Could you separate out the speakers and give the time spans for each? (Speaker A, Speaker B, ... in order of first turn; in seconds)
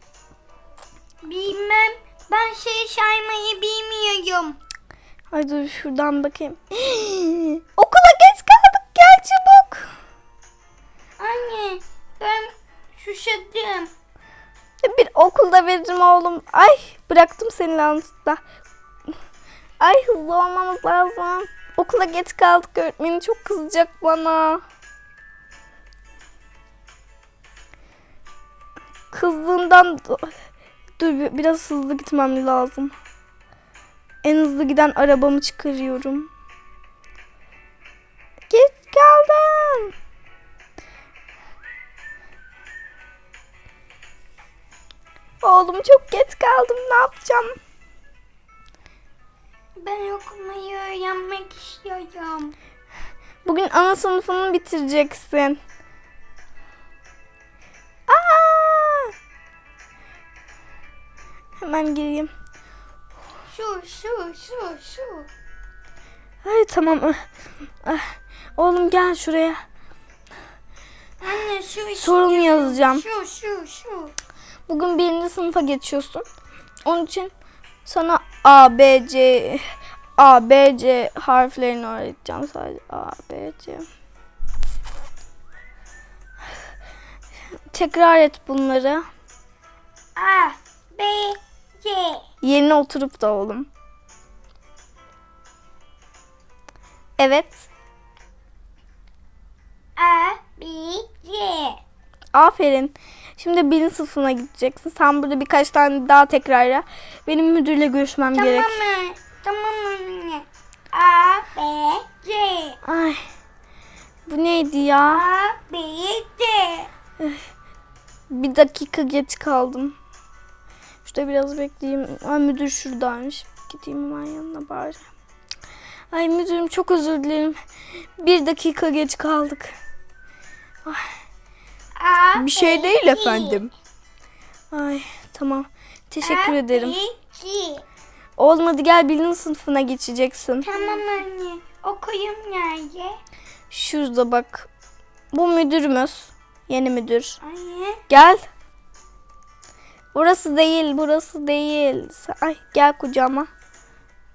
Speaker A: 1.2-4.6, 11.2-13.9, 49.8-52.5, 63.5-65.3, 71.2-74.1, 90.2-92.2, 100.0-101.8, 108.3-112.8, 115.1-116.9, 132.0-133.6, 136.2-137.8, 140.6-143.2, 147.4-148.0
Speaker B: 5.3-9.9, 14.8-18.4, 19.8-24.6, 29.1-30.3, 31.0-32.9, 34.2-36.3, 38.5-39.9, 45.4-47.6, 53.4-55.6, 58.1-59.1, 61.6-62.3, 66.4-67.3, 67.8-69.6, 72.0-73.0, 74.7-76.2, 76.8-77.3, 77.8-79.6, 80.2-83.8, 87.7-89.0, 92.4-93.7, 97.2-97.7, 102.3-108.8, 112.8-113.2, 114.3-115.2, 118.3-120.0, 121.0-125.0, 126.1-127.5, 128.2-129.7, 132.3-133.7, 134.7-137.0, 138.4-141.0, 143.7-144.7, 145.3-147.4, 148.1-148.4, 150.1-153.5